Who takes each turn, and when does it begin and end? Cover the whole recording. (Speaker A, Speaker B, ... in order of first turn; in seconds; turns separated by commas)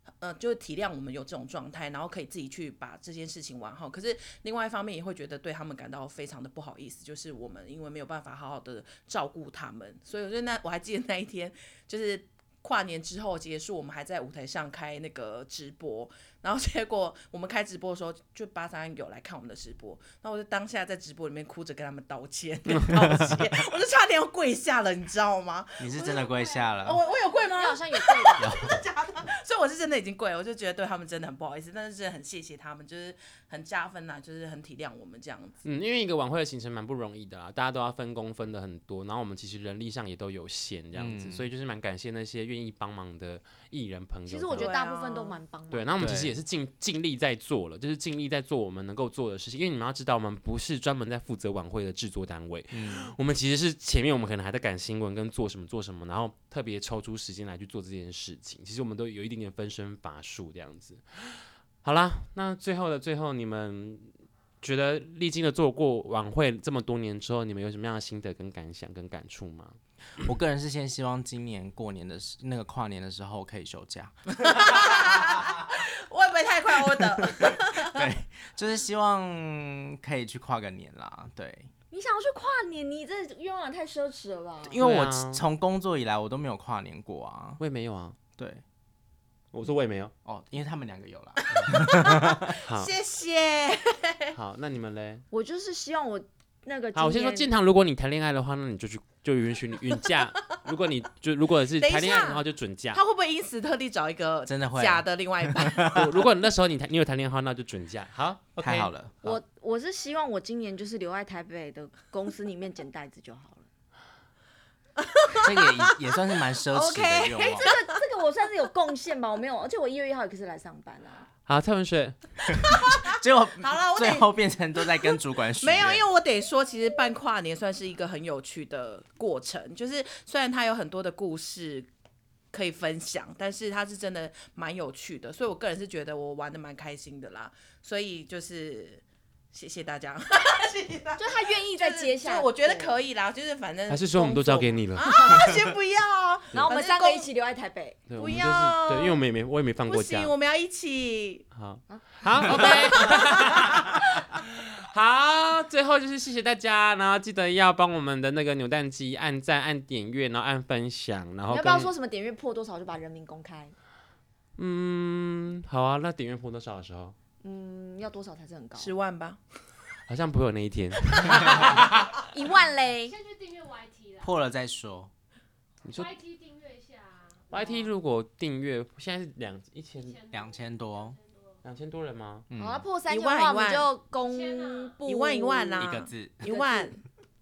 Speaker A: 0.2-35.6, Speaker B: 25.8-27.0, Speaker C: 26.0-27.4, Speaker D: 27.2-28.5, Speaker B: 28.4-28.8, Speaker E: 35.6-44.7, Speaker B: 40.9-41.5, Speaker D: 44.3-45.9, Speaker A: 44.5-45.4, Speaker E: 45.7-69.8, Speaker B: 46.0-46.3, Speaker B: 52.7-53.1, Speaker B: 70.2-75.4, Speaker A: 74.4-78.1, Speaker B: 77.3-81.7, Speaker D: 81.9-84.8, Speaker B: 84.6-87.6, Speaker E: 84.8-85.4, Speaker E: 87.6-88.2, Speaker B: 88.4-88.6, Speaker E: 89.5-90.1, Speaker B: 90.2-92.5, Speaker A: 91.5-94.3, Speaker E: 92.6-92.9, Speaker E: 94.3-95.2, Speaker D: 95.3-97.5, Speaker E: 96.9-103.0, Speaker A: 101.8-106.1, Speaker B: 104.5-106.0, Speaker E: 105.9-108.9, Speaker B: 108.6-109.4, Speaker D: 109.2-113.7, Speaker A: 115.0-117.9, Speaker B: 115.4-117.7, Speaker D: 117.4-121.3, Speaker E: 121.5-122.2, Speaker B: 122.6-126.0, Speaker A: 122.7-123.0, Speaker A: 123.6-124.3, Speaker A: 125.0-131.9, Speaker A: 132.5-147.3, Speaker D: 141.2-143.0, Speaker E: 143.9-145.1, Speaker D: 146.6-148.0, Speaker E: 148.1-150.3, Speaker A: 148.2-149.2, Speaker A: 149.8-151.4, Speaker E: 151.5-161.9, Speaker D: 151.9-153.1, Speaker A: 152.5-153.5, Speaker D: 161.5-163.7, Speaker E: 164.6-167.1, Speaker D: 167.4-168.9, Speaker A: 168.8-169.4, Speaker E: 170.1-172.2, Speaker A: 171.1-171.4, Speaker D: 172.3-173.1, Speaker C: 173.0-174.4, Speaker B: 174.2-175.1, Speaker E: 175.8-176.1, Speaker C: 175.9-177.9, Speaker E: 177.5-180.2, Speaker C: 180.0-181.6, Speaker B: 180.3-181.2, Speaker E: 181.6-182.4, Speaker B: 182.5-182.9, Speaker D: 182.6-185.9, Speaker A: 183.1-183.9, Speaker C: 184.2-185.0, Speaker A: 185.0-187.0, Speaker B: 185.8-186.5, Speaker D: 186.4-186.9